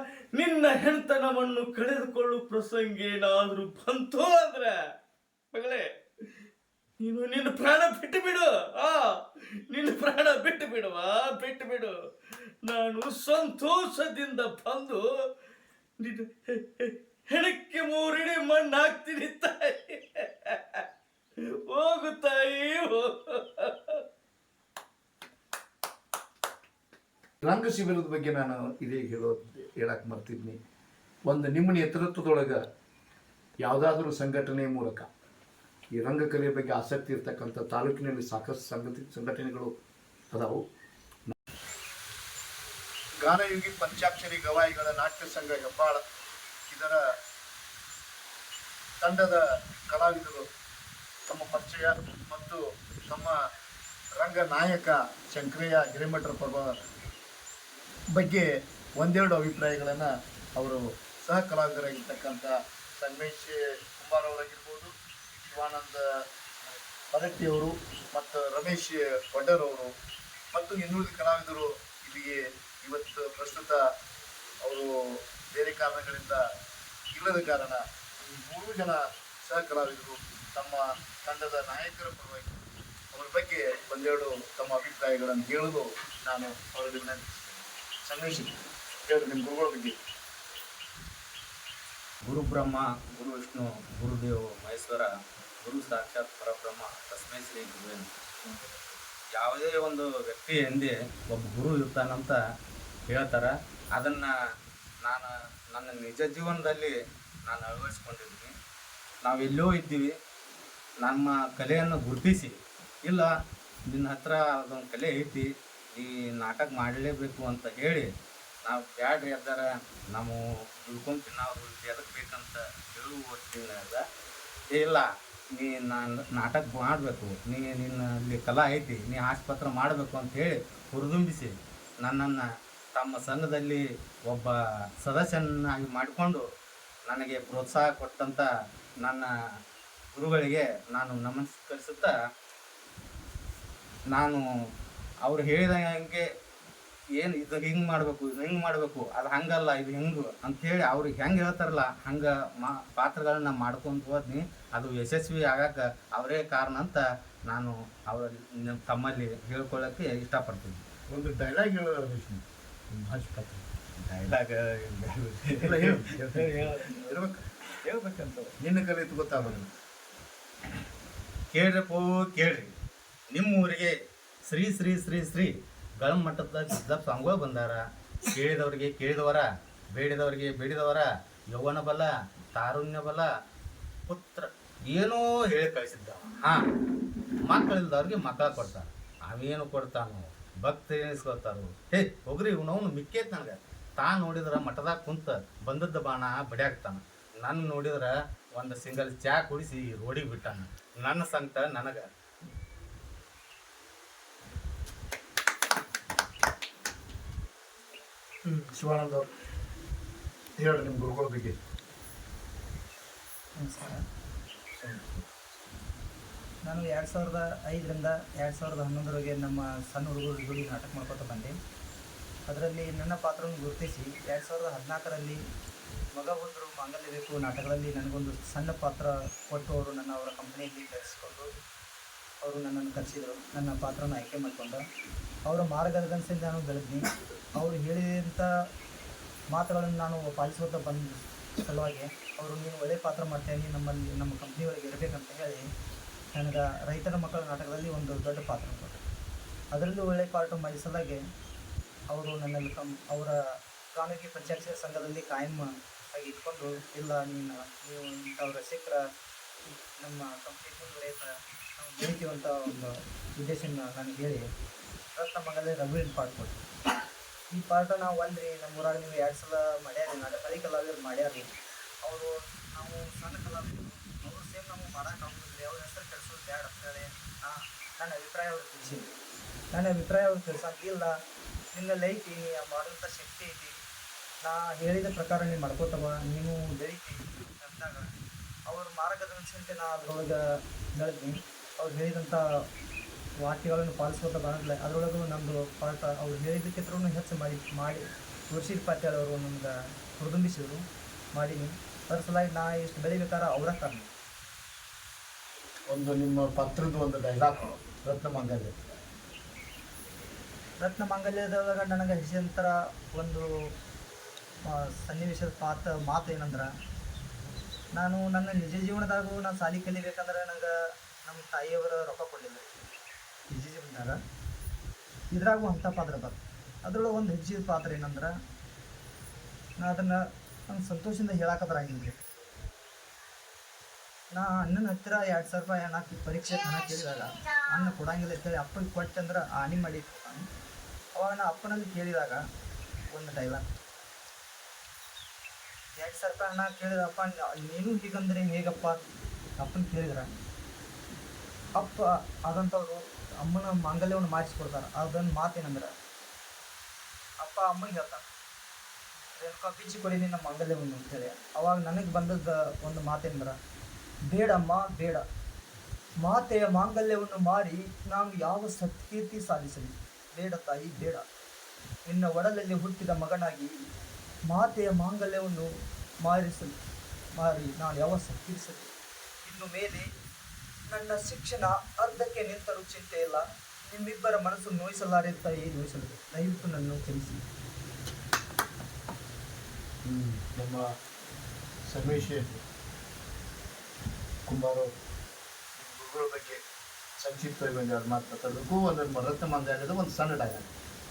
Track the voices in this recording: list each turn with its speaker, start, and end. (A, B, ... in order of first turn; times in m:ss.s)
0:00.3-0:04.8 A
0:05.5-0:05.9 A
0:07.0-0:12.0 A
0:12.6-0:15.1 A
0:16.0-0:20.8 A
0:21.7-0:24.0 A
0:27.4-0:30.6 B
0:31.3-0:32.6 B
0:33.6-0:35.1 B
0:36.0-0:39.7 B
0:40.3-0:40.6 B
0:43.2-0:46.0 B
0:46.7-0:47.0 B
0:49.0-0:50.5 B
0:51.3-0:53.3 B
0:54.2-0:56.7 B
0:58.1-0:58.4 B
0:59.0-1:04.9 B
1:05.4-1:06.0 B
1:07.1-1:09.9 B
1:10.5-1:13.8 B
1:14.6-1:14.9 B
1:15.5-1:16.4 B
1:17.1-1:22.5 B
1:23.1-1:28.5 B
1:29.0-1:30.0 B
1:32.2-1:38.1 C
1:39.4-1:42.4 C
1:43.1-1:44.3 C
1:45.0-1:46.9 C
1:47.4-1:48.5 C
1:49.2-1:50.1 C
1:51.0-1:53.3 C
1:53.9-1:58.1 C
1:58.6-2:04.0 C
2:04.7-2:16.4 C
2:17.0-2:18.5 C
2:19.0-2:19.3 C
2:20.1-2:22.1 C
2:24.1-2:24.4 C
2:25.2-2:26.2 C
2:27.2-2:40.8 C
2:41.1-2:43.6 B
2:44.2-2:47.0 A
2:45.6-2:46.2 C
2:45.7-2:47.4 B
2:47.8-2:48.5 A
2:48.6-2:49.7 B
2:49.3-2:49.6 A
2:51.5-2:52.7 C
2:53.3-3:03.3 C
3:04.1-3:06.6 C
3:07.5-3:22.1 C
3:28.4-3:29.3 B
3:30.6-3:31.6 B
3:33.6-3:34.0 D
3:34.8-3:35.1 B
3:36.6-3:41.5 D
3:42.5-3:45.4 D
3:46.1-3:51.5 D
3:52.4-3:54.8 D
3:55.5-3:58.5 D
3:59.5-4:05.6 D
4:06.3-4:09.0 D
4:09.7-4:11.2 D
4:12.1-4:13.3 D
4:13.9-4:19.0 D
4:20.0-4:24.4 D
4:25.1-4:26.6 D
4:27.5-4:39.1 D
4:39.7-4:41.1 D
4:41.7-4:43.7 D
4:44.4-4:48.0 D
4:48.7-4:50.4 D
4:50.9-4:52.4 D
4:53.4-5:04.1 D
5:05.9-5:08.7 B
5:10.8-5:13.4 D
5:14.6-5:16.7 D
5:17.9-5:20.7 D
5:21.2-5:22.7 D
5:23.5-5:24.2 D
5:25.3-5:28.3 D
5:29.8-5:32.2 D
5:34.3-5:40.4 D
5:41.1-5:42.4 D
5:43.1-5:43.6 D
5:46.0-5:49.0 D
5:49.6-5:50.3 D
5:51.8-5:55.9 D
5:57.4-5:58.2 D
5:59.4-6:03.6 D
6:04.3-6:05.2 D
6:06.2-6:11.2 D
6:12.1-6:13.7 D
6:14.5-6:15.7 D
6:16.2-6:16.7 D
6:17.4-6:18.9 D
6:19.4-6:20.1 D
6:20.9-6:27.4 D
6:30.1-6:30.8 B
6:31.9-6:32.6 B
6:34.5-6:34.9 B
6:35.7-6:36.6 B
6:37.2-6:40.7 B